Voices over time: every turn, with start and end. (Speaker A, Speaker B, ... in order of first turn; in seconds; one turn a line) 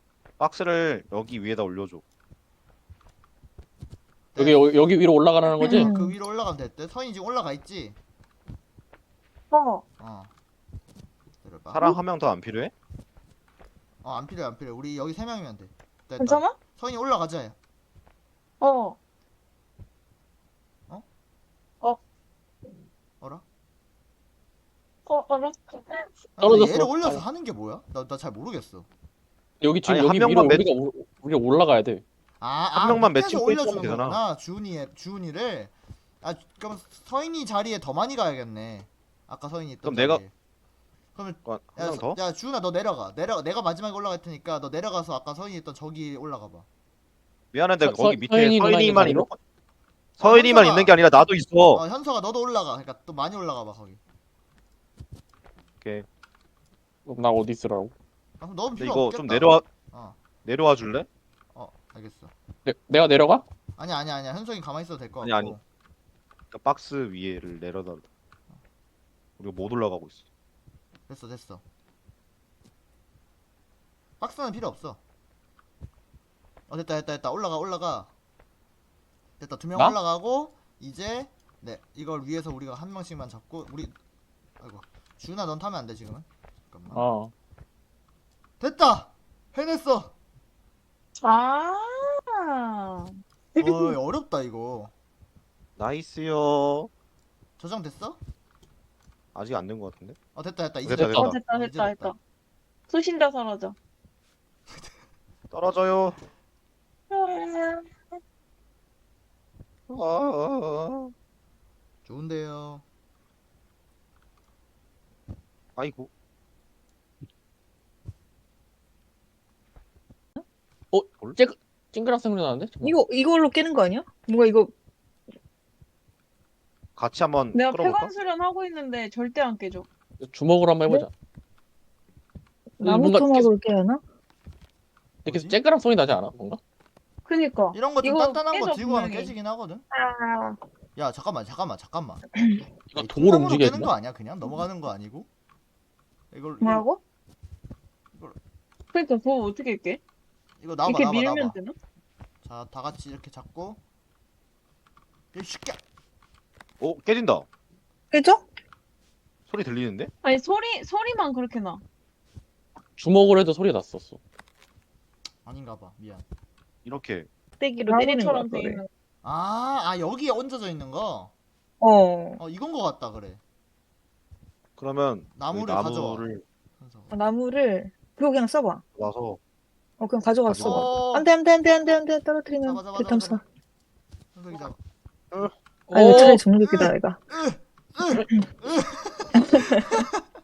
Speaker A: 0.4-2.0
Speaker B: 4.3-4.7
Speaker C: 4.4-5.9
Speaker D: 5.6-6.1
Speaker B: 5.6-8.0
Speaker E: 9.5-9.8
Speaker B: 10.0-10.3
Speaker B: 11.4-11.8
Speaker A: 11.7-12.7
Speaker B: 14.0-17.6
Speaker E: 16.2-16.6
Speaker E: 18.6-19.0
Speaker E: 25.1-26.1
Speaker B: 26.4-28.9
Speaker C: 26.4-27.2
Speaker C: 29.6-32.0
Speaker A: 29.8-30.7
Speaker B: 32.4-40.3
Speaker A: 32.8-34.2
Speaker A: 39.8-40.2
Speaker B: 41.1-46.6
Speaker A: 41.5-42.2
Speaker A: 47.5-49.4
Speaker C: 47.8-49.3
Speaker B: 50.2-50.9
Speaker A: 50.2-51.8
Speaker B: 51.7-54.0
Speaker A: 55.8-56.0
Speaker C: 57.0-57.9
Speaker B: 58.4-60.2
Speaker A: 58.8-59.6
Speaker A: 60.4-61.1
Speaker B: 61.5-62.3
Speaker C: 62.6-63.4
Speaker B: 63.8-65.6
Speaker A: 65.2-65.5
Speaker A: 66.5-68.0
Speaker A: 69.4-70.2
Speaker B: 71.1-71.6
Speaker B: 74.2-75.0
Speaker B: 76.7-78.1
Speaker B: 79.4-83.9
Speaker B: 84.6-87.0
Speaker C: 86.9-87.3
Speaker B: 88.6-90.1
Speaker E: 91.2-94.0
Speaker B: 93.6-94.9
Speaker A: 95.8-96.9
Speaker B: 97.6-98.2
Speaker A: 99.3-100.2
Speaker B: 100.3-102.1
Speaker A: 100.8-101.4
Speaker E: 101.1-102.2
Speaker E: 102.9-103.7
Speaker A: 105.5-106.2
Speaker E: 107.1-107.9
Speaker A: 109.9-111.1
Speaker B: 112.0-112.8
Speaker A: 115.8-116.1
Speaker C: 120.9-123.0
Speaker D: 122.8-124.7
Speaker A: 127.0-128.1
Speaker E: 127.5-129.9
Speaker C: 130.2-131.1
Speaker D: 132.8-134.0
Speaker C: 132.8-133.5
Speaker B: 135.2-135.6
Speaker C: 135.2-136.6
Speaker E: 137.3-139.3
Speaker B: 137.7-139.8
Speaker D: 139.9-140.6
Speaker B: 140.9-142.2
Speaker C: 142.9-143.9
Speaker B: 142.9-145.3
Speaker B: 146.3-146.8
Speaker E: 146.6-147.0
Speaker E: 148.9-150.0
Speaker B: 150.6-151.6
Speaker E: 150.8-151.8
Speaker B: 152.4-153.8
Speaker B: 155.3-155.8
Speaker A: 156.8-157.4
Speaker D: 158.1-158.4
Speaker A: 159.5-160.1
Speaker E: 160.2-161.8
Speaker C: 163.0-164.2
Speaker B: 165.4-166.2
Speaker A: 166.8-167.3
Speaker D: 167.6-168.8
Speaker E: 167.8-168.9
Speaker B: 169.2-171.3
Speaker D: 171.8-172.4
Speaker B: 172.4-173.4
Speaker A: 174.8-176.4
Speaker B: 175.3-176.2
Speaker B: 176.8-177.1
Speaker D: 177.1-178.8
Speaker A: 178.9-179.4
Speaker D: 180.0-183.4
Speaker A: 180.5-180.9
Speaker B: 180.6-181.3
Speaker B: 182.6-183.4
Speaker B: 184.3-184.8
Speaker C: 185.9-186.4
Speaker D: 185.9-187.2
Speaker B: 186.7-190.1
Speaker D: 189.4-189.8